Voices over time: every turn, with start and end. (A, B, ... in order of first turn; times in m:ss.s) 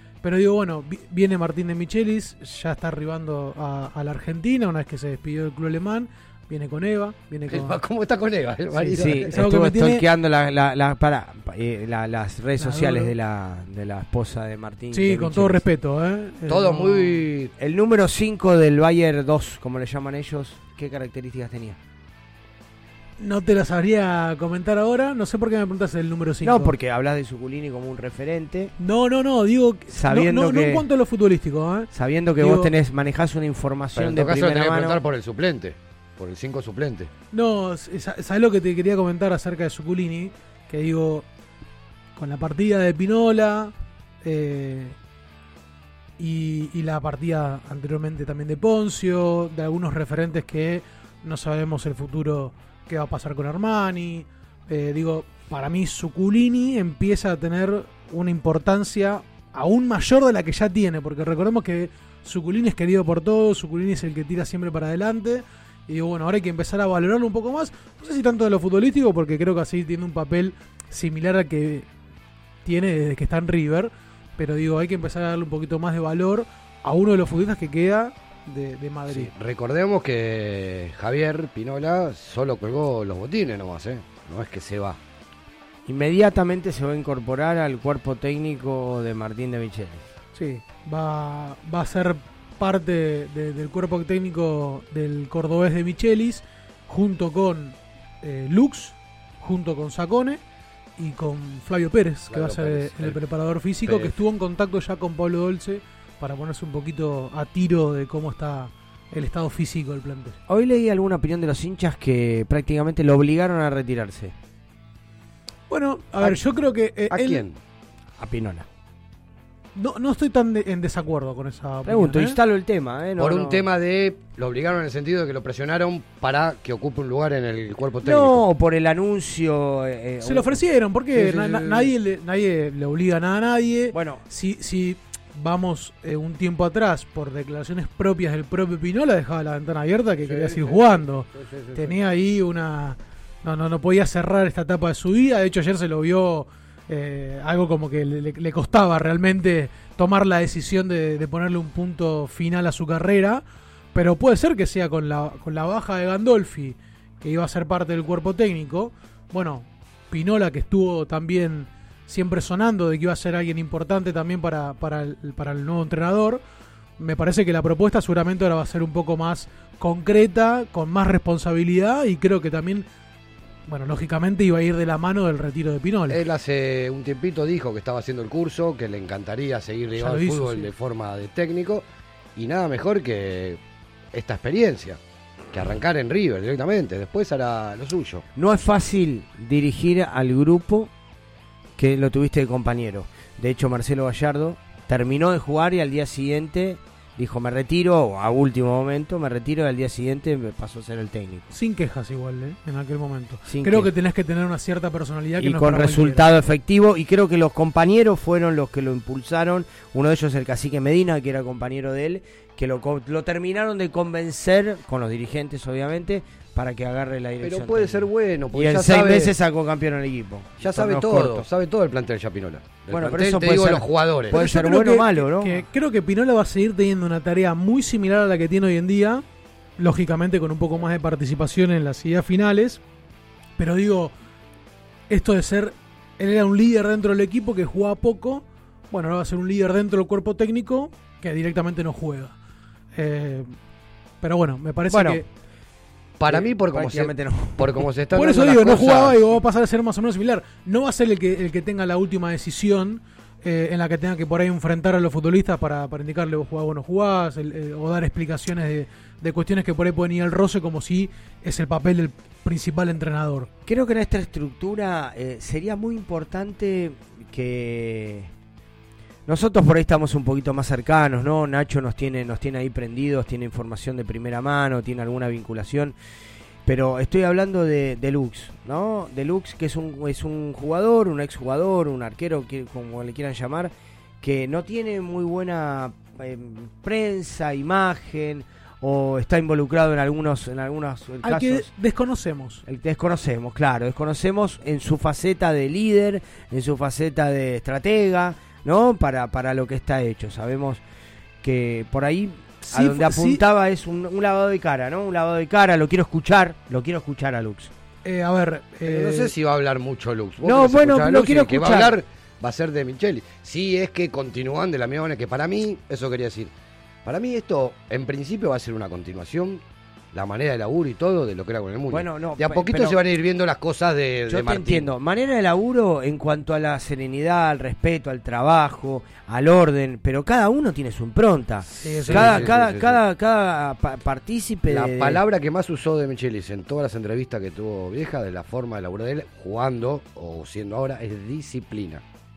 0:00.2-0:07.8 A
0:07.5-0:09.3 B
0:08.7-0:10.0 A
0:08.9-0:15.6 C
0:12.6-0:13.1 A
0:14.9-0:17.3 A
0:16.5-0:17.5 B
0:17.6-0:21.8 C
0:23.2-0:26.7 A
0:26.4-0:28.7 C
0:28.8-0:32.7 A
0:29.9-0:30.8 C
0:31.9-0:35.0 C
0:34.0-0:37.1 B
0:37.3-0:41.2 A
0:42.2-0:44.9 A
0:46.2-1:11.8 A
1:12.6-1:19.3 A
1:19.1-1:25.0 B
1:25.8-1:30.0 C
1:30.3-1:40.4 A
1:41.0-1:50.4 A
1:42.3-1:43.2 B
1:43.8-1:44.1 B
1:50.5-1:54.3 C
1:55.7-1:57.4 A
1:57.1-1:57.6 B
1:58.2-1:58.6 C
1:59.8-2:02.4 A
2:01.8-2:03.6 C
2:03.2-2:08.4 B
2:08.0-2:10.6 C
2:10.2-2:46.4 A
2:11.1-2:11.9 B
2:13.9-2:14.2 C
2:20.2-2:22.0 B
2:47.0-2:52.8 A
2:53.7-2:56.2 A
2:56.1-3:01.8 B
2:59.9-3:00.7 A
3:02.4-3:03.6 B
3:04.1-3:05.0 B
3:05.5-3:08.2 B
3:08.4-3:10.9 C
3:11.8-3:21.4 C
3:21.5-3:26.3 A
3:23.5-3:23.9 C
3:25.4-3:41.5 C
3:37.4-3:39.3 B
3:40.6-3:44.4 B
3:42.9-3:45.6 C
3:44.3-3:49.2 A
3:49.8-3:52.8 A
3:53.6-3:54.1 A
3:55.1-4:02.3 A
4:02.9-4:03.5 A
4:04.2-4:05.2 A
4:04.9-4:05.2 C
4:06.2-4:09.2 B
4:06.2-4:07.8 C
4:08.1-4:23.5 A
4:23.6-4:28.3 C
4:29.3-4:35.9 C
4:36.6-4:51.6 C
4:51.2-4:52.6 A
4:52.6-5:00.8 C
5:01.4-5:07.7 C
5:02.7-5:03.4 A
5:08.0-5:09.3 A
5:08.8-5:16.5 B
5:10.4-5:12.0 C
5:17.0-5:19.6 B
5:20.1-5:24.9 B
5:21.9-5:23.0 C
5:24.3-5:35.2 C
5:31.7-5:32.5 A
5:32.0-5:33.0 B
5:34.7-5:42.0 B